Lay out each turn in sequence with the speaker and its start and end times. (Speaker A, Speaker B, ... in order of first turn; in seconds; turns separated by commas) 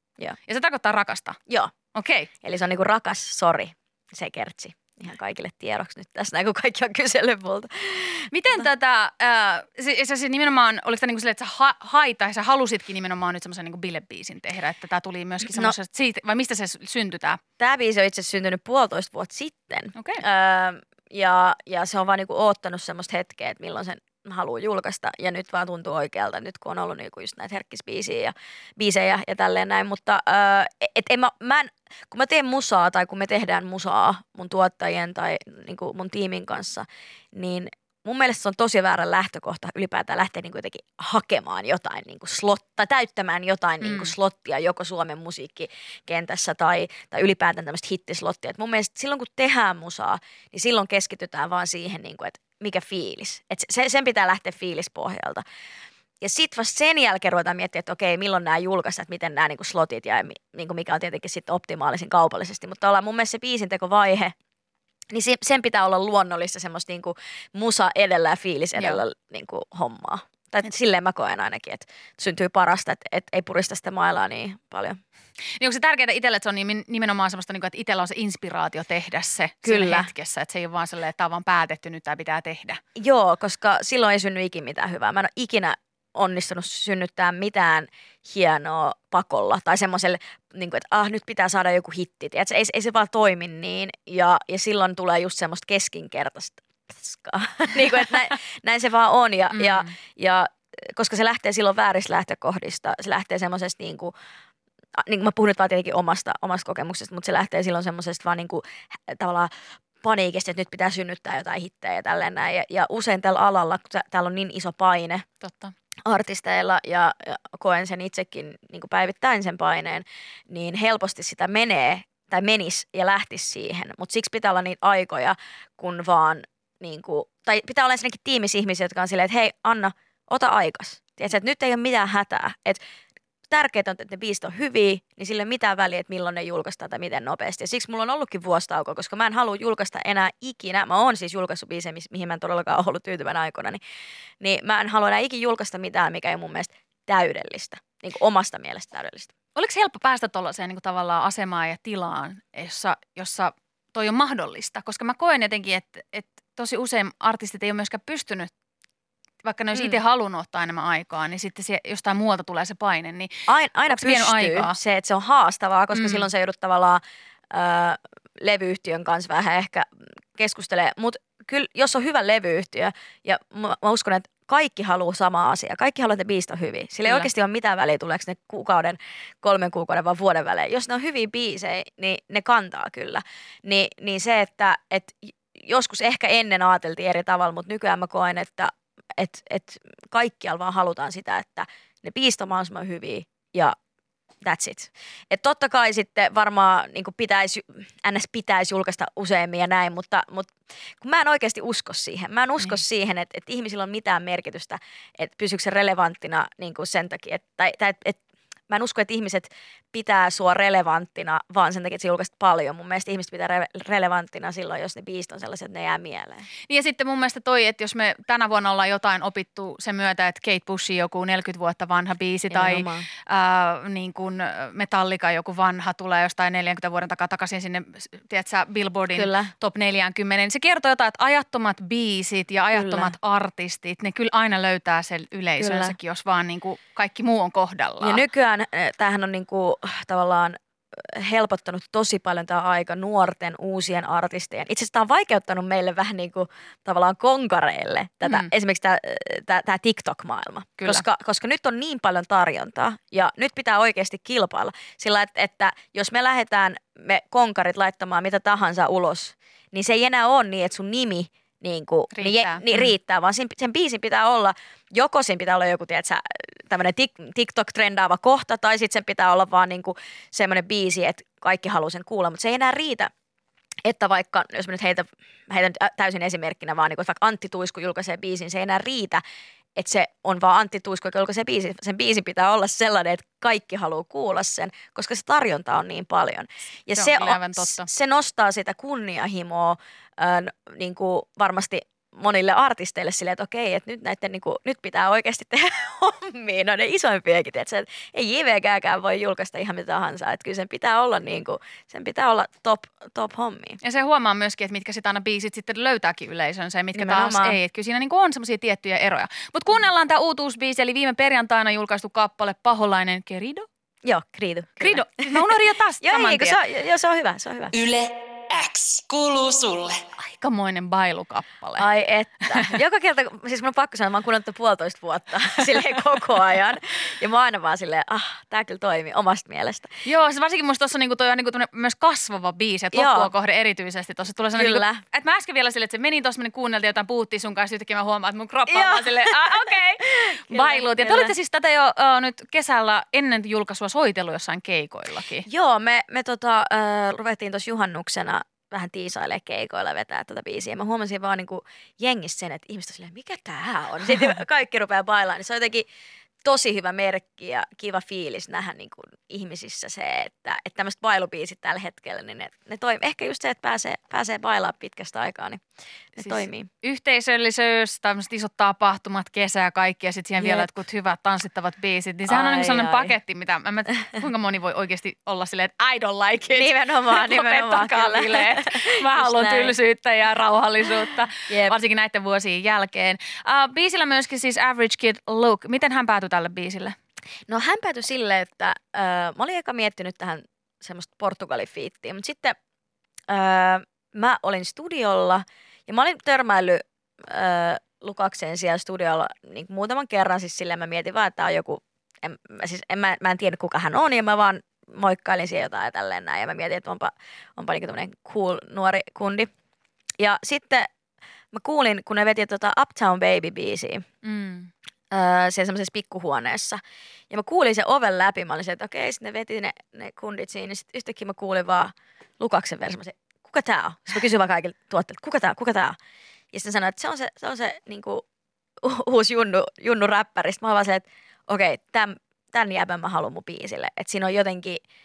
Speaker A: 0.4-1.4, Speaker B: 1.5-1.7, Speaker A: 1.9-2.3, Speaker B: 2.4-8.7, Speaker A: 8.3-17.4, Speaker B: 15.4-15.8, Speaker B: 17.6-55.4, Speaker A: 19.9-20.2, Speaker A: 43.8-44.1, Speaker B: 56.2-64.3, Speaker B: 65.1-75.0, Speaker A: 68.8-69.0, Speaker A: 75.6-82.8, Speaker B: 79.6-80.1, Speaker B: 83.0-104.1, Speaker A: 99.5-99.9, Speaker B: 105.0-115.2, Speaker A: 115.4-115.7, Speaker B: 116.0-132.8, Speaker B: 133.5-143.8, Speaker B: 144.4-149.3, Speaker A: 149.5-158.5, Speaker A: 159.4-163.3, Speaker B: 159.7-160.0, Speaker B: 163.5-193.8, Speaker A: 163.9-164.8, Speaker A: 165.9-166.3, Speaker B: 194.4-216.4, Speaker A: 216.7-238.2, Speaker B: 222.5-223.1, Speaker B: 229.1-229.5, Speaker B: 232.7-233.1, Speaker B: 235.6-235.9, Speaker B: 238.0-273.1, Speaker A: 248.2-248.5, Speaker A: 250.8-251.0, Speaker A: 262.1-262.9, Speaker B: 273.8-279.2, Speaker B: 279.8-303.8, Speaker A: 286.9-287.9, Speaker A: 303.8-313.7, Speaker B: 306.9-307.6, Speaker B: 314.0-317.8, Speaker A: 314.8-316.6, Speaker C: 317.7-320.0, Speaker A: 320.2-321.9, Speaker B: 321.8-329.9, Speaker A: 322.5-322.7, Speaker A: 330.0-345.5, Speaker B: 332.9-333.3, Speaker B: 334.5-335.0, Speaker B: 338.7-341.3, Speaker B: 345.4-355.9, Speaker B: 356.4-365.6, Speaker B: 366.1-366.7, Speaker A: 366.2-386.9, Speaker B: 370.4-370.7, Speaker B: 372.3-373.1, Speaker B: 376.5-379.8, Speaker B: 381.5-381.8, Speaker B: 387.5-392.6, Speaker B: 393.3-409.5, Speaker B: 410.2-410.9, Speaker B: 411.5-414.0, Speaker A: 414.2-414.7, Speaker B: 415.1-426.0, Speaker B: 426.5-428.2, Speaker B: 428.8-434.8